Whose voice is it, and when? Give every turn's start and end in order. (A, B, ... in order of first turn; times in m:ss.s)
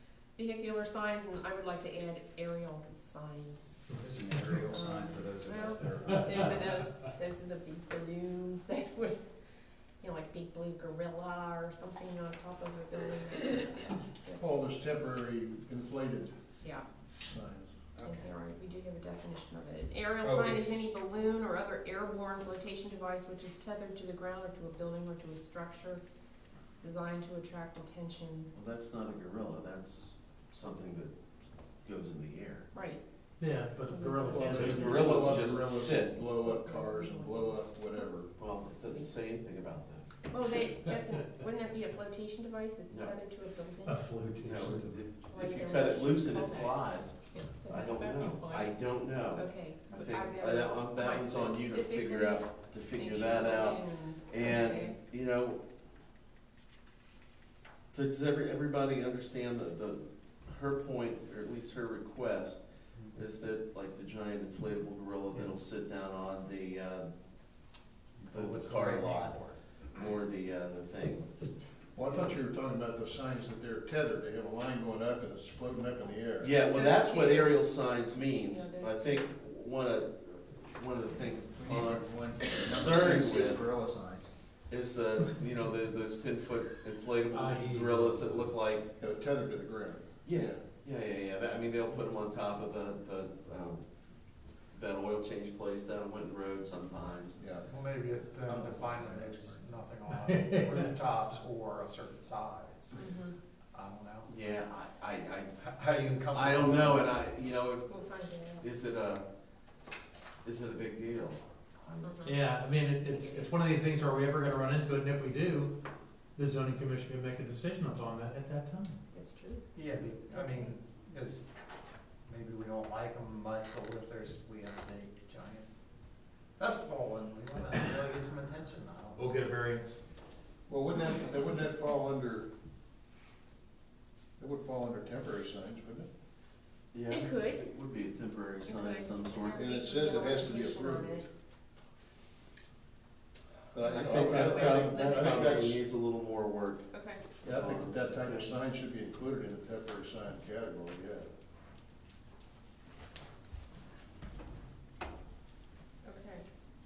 0:00.4-0:03.7 A
0:03.9-0:06.6 B
0:04.7-0:09.2 A
0:10.0-0:14.6 A
0:14.4-0:16.3 C
0:17.3-0:17.7 C
0:18.0-0:18.3 B
0:18.0-0:26.0 A
0:20.2-0:20.8 B
0:26.8-0:28.5 A
0:28.5-0:31.1 D
0:31.8-0:32.7 D
0:32.7-0:33.0 A
0:33.4-0:35.4 E
0:33.8-0:35.3 A
0:34.3-0:38.3 C
0:34.5-0:36.1 D
0:36.1-0:38.1 A
0:38.4-0:40.2 D
0:40.3-0:44.0 A
0:43.8-0:45.0 E
0:44.4-0:55.6 D
0:45.3-0:48.8 A
0:49.3-0:54.9 A
0:57.9-1:02.6 D
1:03.1-1:07.1 D
1:08.2-1:09.6 F
1:08.3-1:09.4 D
1:09.9-1:11.3 D
1:11.9-1:16.5 C
1:16.4-1:23.6 D
1:16.7-1:17.6 A
1:18.4-1:19.3 A
1:21.5-1:24.3 B
1:24.7-1:28.8 D
1:27.3-1:28.6 E
1:29.0-1:30.6 C
1:30.2-1:33.8 D
1:34.7-1:37.4 D
1:37.4-1:37.7 C
1:37.7-1:43.0 F
1:38.4-1:39.6 C
1:40.3-1:40.8 E
1:42.9-1:43.4 A
1:43.7-1:44.3 F
1:44.2-1:45.5 D
1:45.6-1:47.2 F
1:46.3-1:48.0 D
1:47.9-1:48.7 A
1:48.6-1:49.2 D
1:50.4-1:52.1 D
1:52.0-1:52.5 A
1:52.2-1:55.7 E
1:53.0-1:53.6 A
1:56.4-1:59.0 E
1:59.1-1:59.6 A
1:59.7-2:01.5 F
2:00.3-2:00.7 A
2:02.2-2:05.7 F
2:06.6-2:09.2 F
2:09.2-2:10.0 E
2:10.7-2:12.5 C
2:14.4-2:16.1 C
2:16.9-2:19.6 D
2:17.1-2:17.6 A
2:18.6-2:21.2 A
2:19.6-2:21.2 C
2:23.7-2:25.8 C
2:23.8-2:25.7 A
2:23.9-2:26.8 D
2:26.9-2:27.2 A
2:27.4-2:28.5 D
2:27.4-2:31.2 C
2:36.0-2:36.4 A